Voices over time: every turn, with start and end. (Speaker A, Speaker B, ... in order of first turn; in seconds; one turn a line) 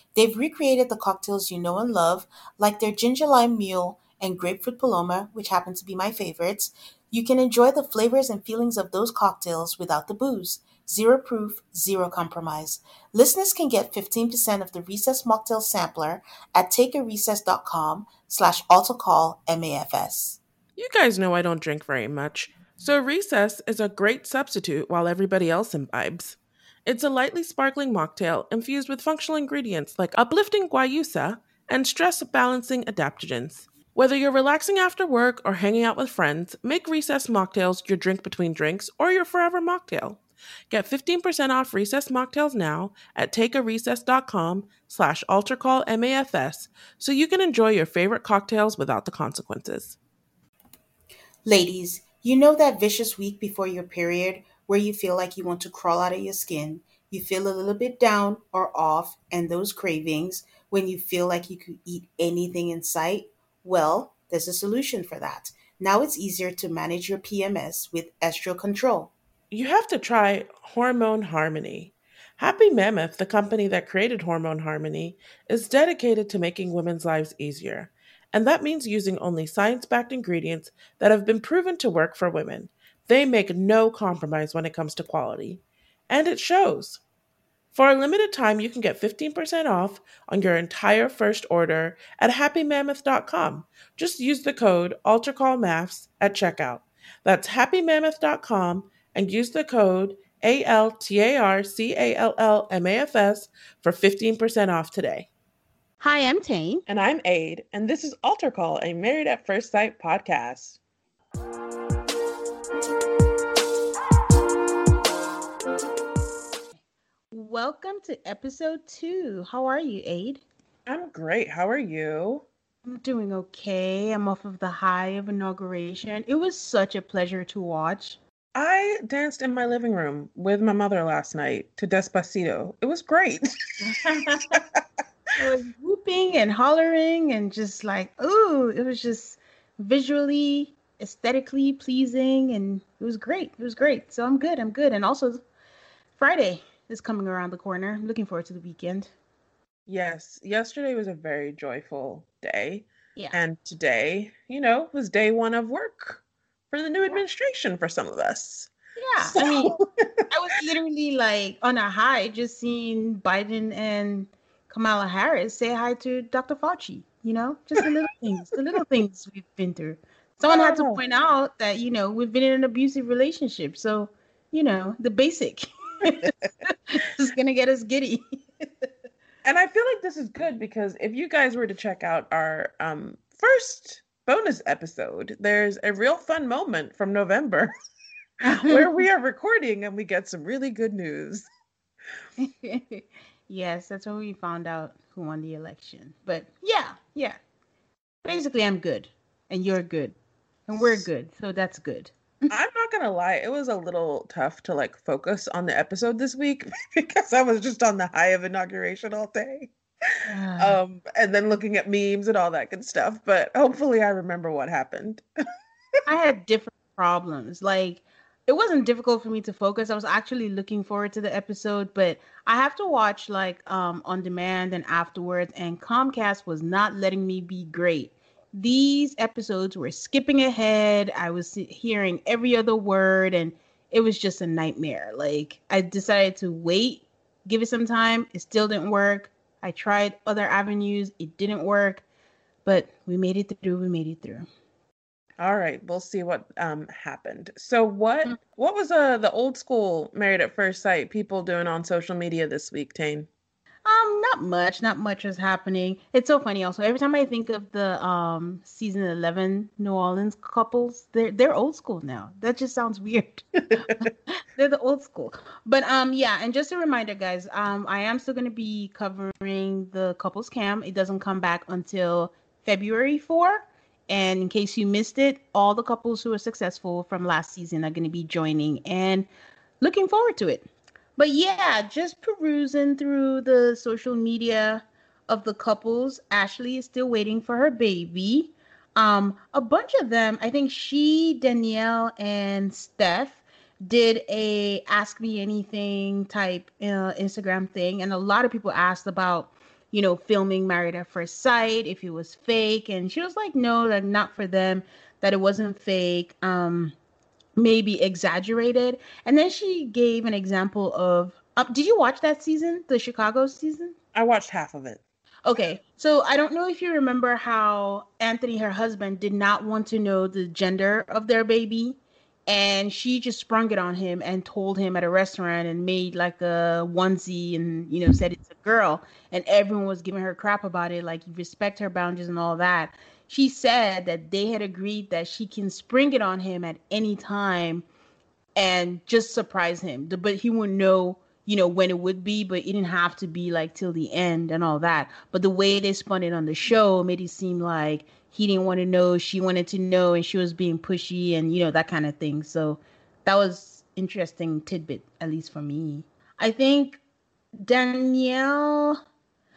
Speaker A: 0.2-17.1
Speaker B: 0.2-20.4
Speaker A: 17.6-20.4
Speaker C: 20.8-50.0
Speaker B: 51.5-57.1
Speaker A: 51.5-68.2
Speaker B: 59.8-63.0
Speaker B: 63.7-69.1
Speaker C: 69.5-87.0
Speaker C: 87.7-105.3
Speaker B: 106.0-106.8
Speaker C: 106.9-110.8
Speaker B: 117.3-120.4
Speaker C: 120.9-122.5
Speaker B: 122.8-128.2
Speaker C: 128.6-133.5
Speaker B: 133.8-134.6
Speaker C: 134.5-134.8
Speaker B: 135.4-145.4
Speaker B: 146.2-149.1
Speaker C: 149.9-158.7
Speaker B: 159.0-159.8
Speaker C: 159.3-159.9
Speaker B: 160.3-178.9
Speaker C: 170.5-171.0
Speaker C: 179.4-187.7
Speaker B: 188.4-188.9
Speaker C: 188.6-191.5
Speaker B: 192.4-197.4
Speaker B: 198.2-200.2
Speaker B: 200.7-202.5
Speaker C: 202.5-209.7
Speaker B: 210.3-210.8
Speaker C: 210.6-215.2
Speaker B: 216.1-242.0
Speaker B: 242.7-244.5
Speaker C: 245.4-253.3
Speaker B: 253.9-279.3
Speaker B: 279.8-307.0
Speaker B: 307.6-313.9
Speaker C: 314.1-315.0
Speaker B: 315.4-337.9
Speaker B: 338.6-357.0
Speaker B: 357.6-359.0